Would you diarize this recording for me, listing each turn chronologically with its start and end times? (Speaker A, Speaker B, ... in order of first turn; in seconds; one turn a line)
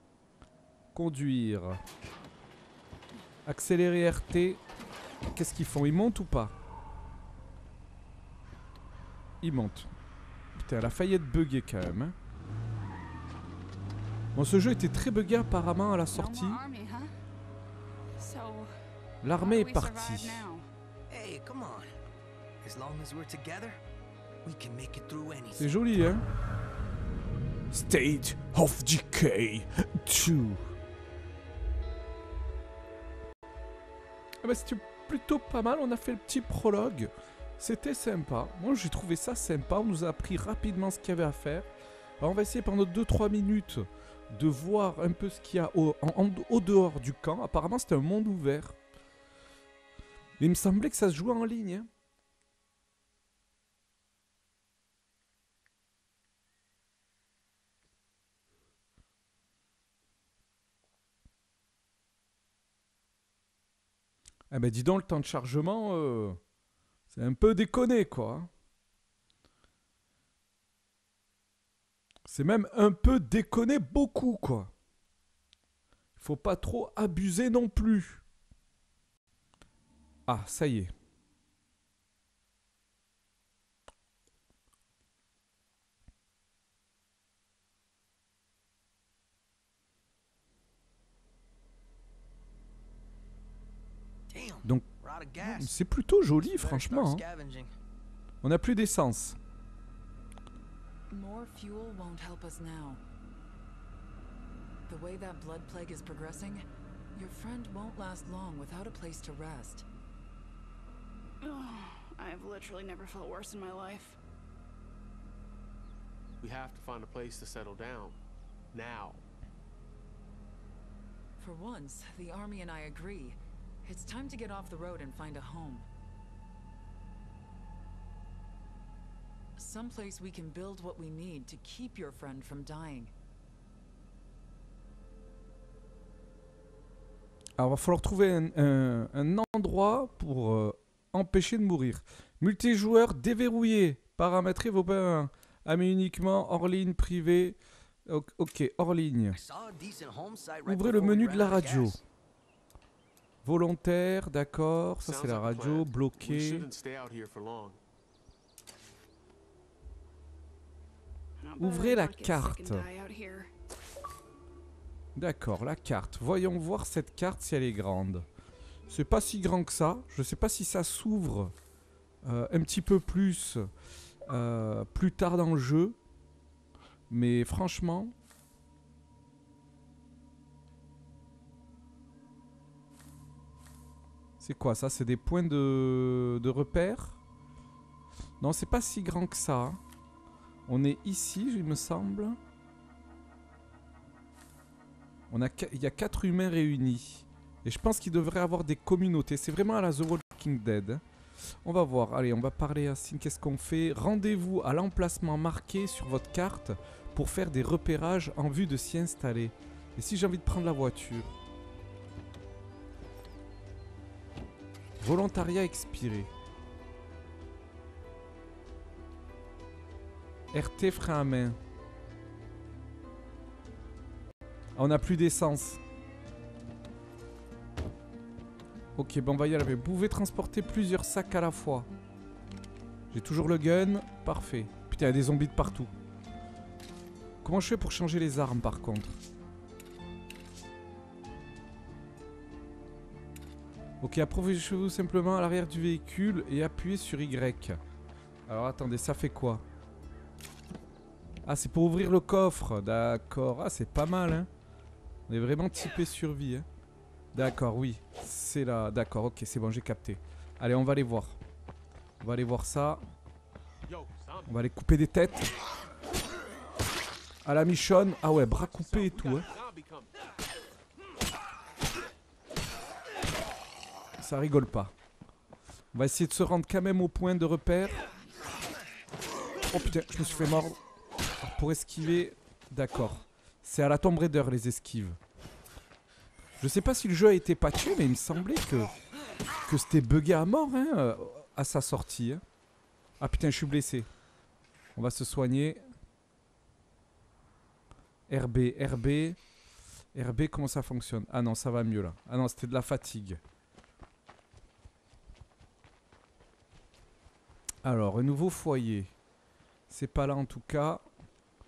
Speaker A: 0.9-1.8
Speaker A: 3.5-4.6
Speaker A: 5.3-6.5
Speaker A: 9.4-9.9
Speaker A: 10.5-12.1
Speaker A: 14.3-16.6
Speaker B: 16.1-17.1
Speaker B: 18.1-18.7
Speaker A: 19.2-20.5
Speaker B: 19.3-20.6
Speaker C: 21.1-21.9
Speaker C: 22.6-23.8
Speaker C: 24.4-25.7
Speaker A: 25.6-26.2
Speaker A: 27.7-30.7
Speaker A: 34.4-41.7
Speaker A: 42.2-48.8
Speaker A: 50.4-51.9
Speaker A: 64.5-66.4
Speaker A: 67.1-68.5
Speaker A: 72.2-74.7
Speaker A: 76.2-78.2
Speaker A: 80.3-80.9
Speaker C: 94.3-95.7
Speaker A: 95.4-97.2
Speaker C: 96.4-97.7
Speaker A: 98.4-99.4
Speaker D: 101.1-103.0
Speaker D: 104.9-109.8
Speaker B: 111.4-114.2
Speaker E: 116.4-118.2
Speaker E: 118.7-119.2
Speaker D: 121.4-125.9
Speaker D: 129.6-133.1
Speaker A: 137.6-149.4
Speaker C: 149.3-152.0
Speaker A: 150.6-152.0
Speaker A: 153.4-156.7
Speaker E: 155.0-157.8
Speaker B: 161.4-163.5
Speaker A: 161.6-162.9
Speaker A: 165.1-168.3
Speaker A: 168.9-171.5
Speaker A: 172.2-173.7
Speaker A: 174.2-176.0
Speaker A: 177.1-178.1
Speaker A: 184.4-187.2
Speaker A: 188.4-189.8
Speaker A: 190.7-192.4
Speaker A: 195.3-201.0
Speaker A: 201.6-211.3
Speaker A: 215.0-216.3
Speaker A: 220.5-221.6
Speaker A: 224.8-225.8
Speaker A: 228.9-231.9
Speaker A: 233.1-235.9
Speaker A: 237.4-239.2
Speaker A: 244.0-247.8
Speaker A: 248.5-249.6
Speaker A: 251.4-254.5
Speaker A: 255.3-256.7
Speaker A: 257.3-261.4
Speaker A: 262.2-263.0
Speaker E: 263.9-264.6
Speaker A: 264.5-265.5
Speaker A: 267.4-269.5
Speaker E: 268.4-270.1
Speaker A: 274.2-274.9
Speaker A: 275.9-278.0
Speaker A: 279.6-280.8
Speaker A: 281.4-285.2
Speaker A: 286.6-288.9
Speaker A: 289.6-292.4
Speaker A: 293.2-294.1
Speaker A: 294.9-295.8
Speaker A: 298.3-299.4
Speaker A: 300.1-303.4
Speaker A: 307.8-309.1
Speaker A: 309.9-311.0